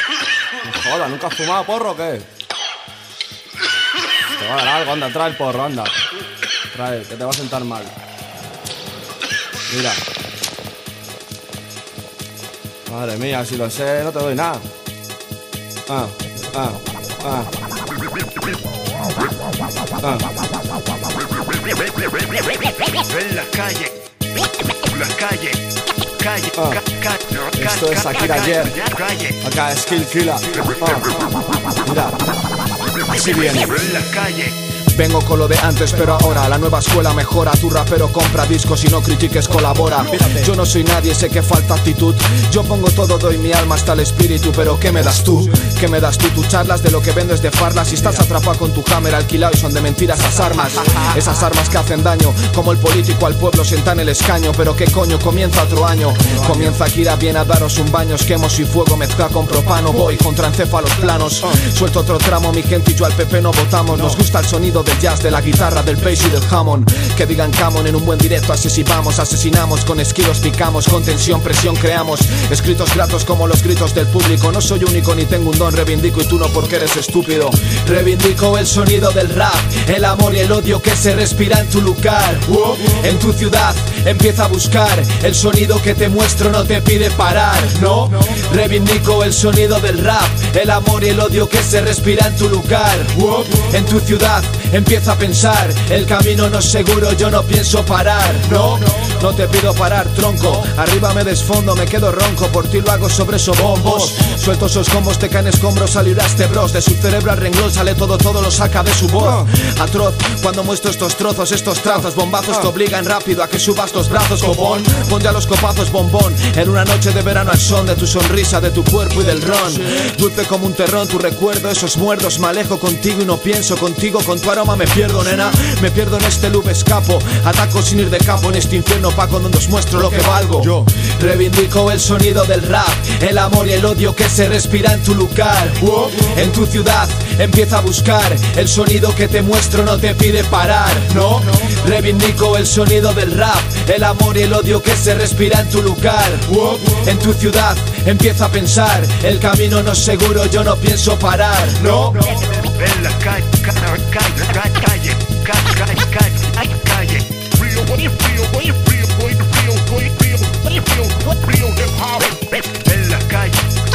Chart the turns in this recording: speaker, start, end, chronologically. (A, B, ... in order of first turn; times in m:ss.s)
0:00.6-0:02.3 A
0:04.3-0:06.0 A
0:06.7-0:07.9 A
0:09.7-0:10.0 A
0:12.9-0:14.7 A
0:15.9-0:17.5 A
0:20.0-0:20.3 A
0:23.2-0:23.9 B
0:25.0-0:25.6 B
0:26.2-0:26.5 B
0:26.5-0:26.8 A
0:27.0-0:27.4 B
0:27.5-0:28.9 A
0:28.8-0:29.3 B
0:29.4-0:32.2 A
0:33.1-0:34.0 A
0:34.0-0:34.5 B
0:34.9-2:32.6 C
0:40.2-0:40.5 A
0:56.3-0:56.7 A
1:49.2-1:49.5 A
2:32.7-2:37.2 B
2:42.9-2:43.6 B